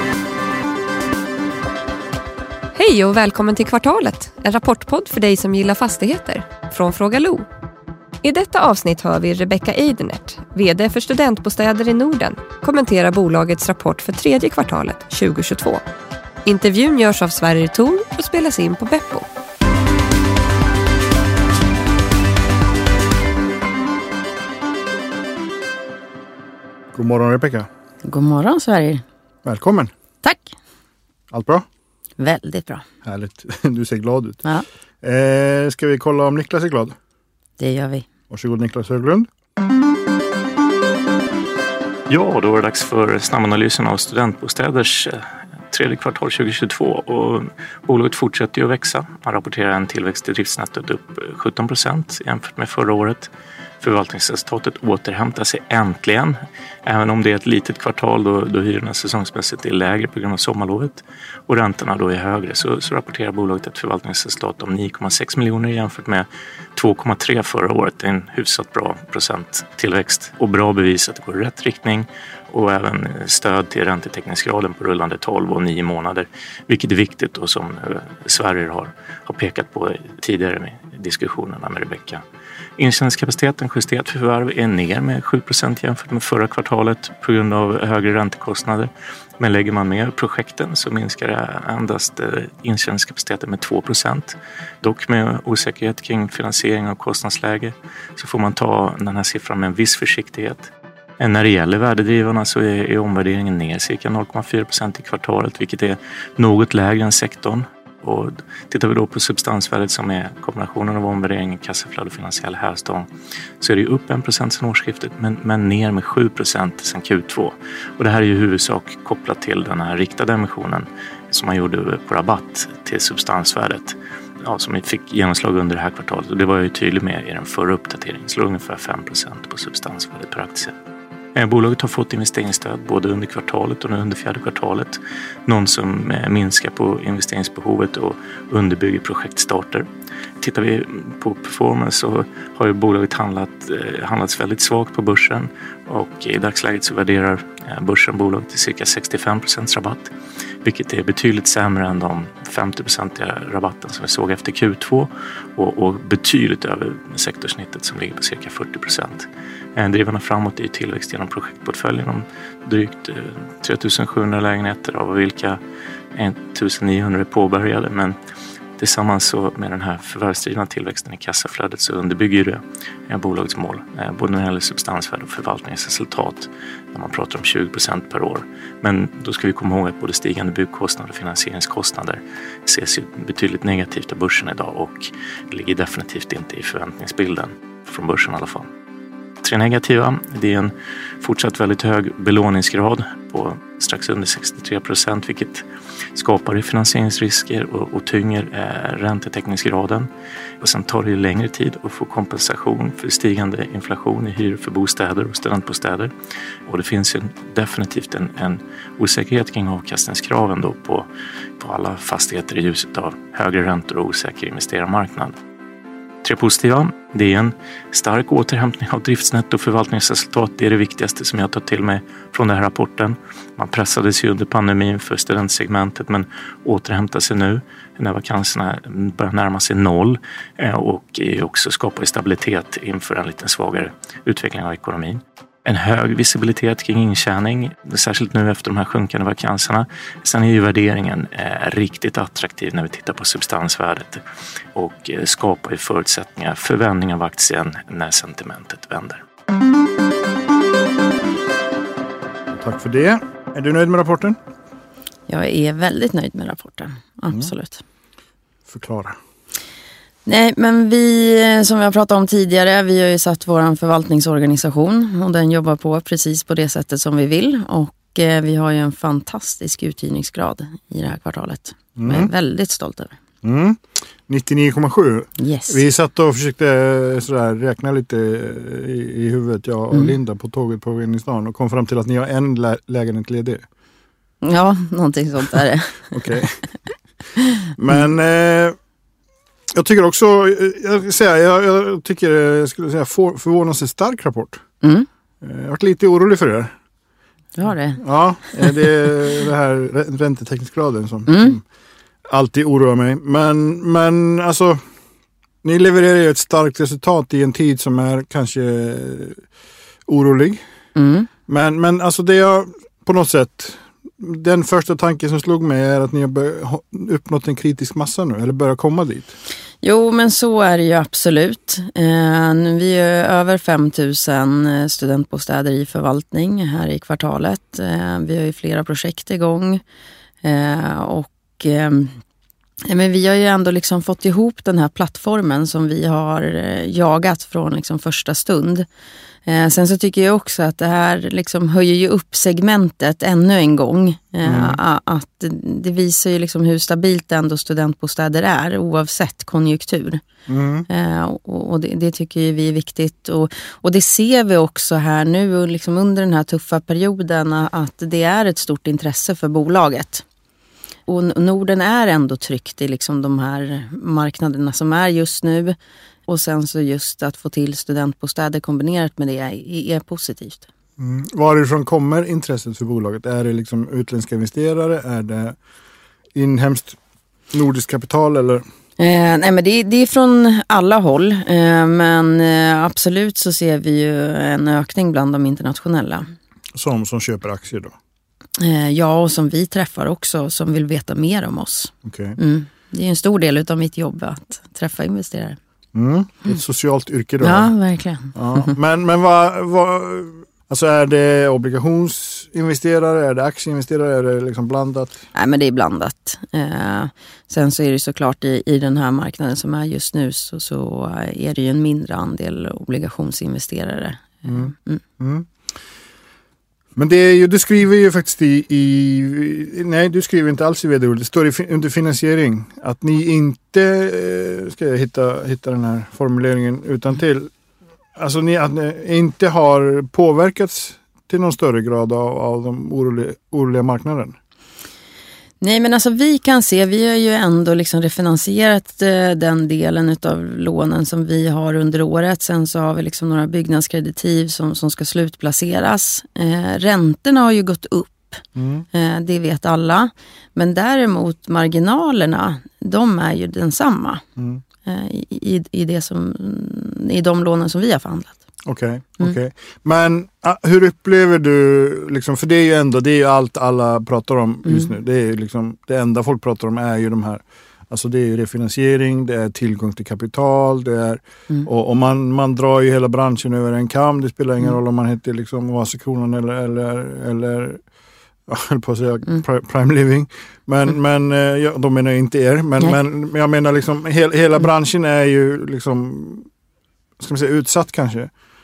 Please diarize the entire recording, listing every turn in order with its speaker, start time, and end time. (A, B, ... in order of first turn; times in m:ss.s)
0:02.7-0:07.4 A
0:08.2-0:15.8 A
0:16.4-0:19.2 A
0:26.9-0:27.7 B
0:28.0-0:29.0 C
0:29.4-0:29.9 B
0:30.2-0:30.5 C
0:31.3-0:31.6 B
0:32.2-0:32.8 C
0:33.0-0:34.4 B
0:35.0-0:37.0 B
0:37.6-0:38.1 C
0:38.3-0:39.3 B
0:42.1-0:53.3 D
0:53.8-1:22.2 D
1:22.8-1:40.7 D
1:41.2-1:53.1 D
1:53.6-2:10.7 D
2:11.3-2:19.9 D
2:20.4-2:30.1 D
2:30.6-2:45.6 D
2:46.1-2:48.2 D
2:48.8-3:08.7 D
3:09.4-3:20.1 D
3:20.6-3:26.1 D
3:26.6-3:31.1 D
3:31.6-3:35.3 D
3:36.2-4:04.2 D
4:04.7-4:09.2 D
4:12.5-4:14.4 B
4:15.3-4:17.8 C
4:18.7-4:19.2 B
4:20.2-4:33.2 C
4:32.0-4:32.3 B
4:33.4-4:43.6 B
4:35.4-4:35.8 C
4:44.4-4:46.1 C
4:46.1-4:46.6 B
4:47.7-4:48.8 B
4:49.7-4:54.6 B
4:54.8-4:55.1 C
4:55.4-4:56.7 B
4:57.6-4:58.9 C
4:58.0-5:01.6 B
5:01.3-5:01.6 C
5:02.2-5:04.8 B
5:05.6-5:09.4 B
5:10.1-5:10.6 B
5:11.0-5:11.3 C
5:11.5-5:19.3 B
5:19.8-5:29.8 C
5:30.4-5:32.2 C
5:32.8-5:38.9 C
5:39.4-5:50.2 C
5:44.4-5:44.8 B
5:50.5-5:50.8 B
5:50.9-6:00.2 C
6:01.1-6:10.6 C
6:11.0-6:15.6 B
6:16.3-6:17.0 B
6:17.5-6:18.6 B
6:19.0-6:26.3 C
6:26.7-6:27.9 B
6:28.6-6:35.6 C
6:32.0-6:32.4 B
6:35.9-6:37.7 B
6:37.4-6:38.7 C
6:38.3-6:45.2 B
6:45.3-6:55.0 C
6:54.4-6:55.5 B
6:57.0-7:07.5 B
7:08.1-7:14.3 B
7:15.6-7:34.2 C
7:28.6-7:28.8 B
7:34.4-7:34.6 B
7:34.8-7:38.4 C
7:38.6-7:57.8 B
7:58.5-8:06.5 B
8:07.2-8:08.3 B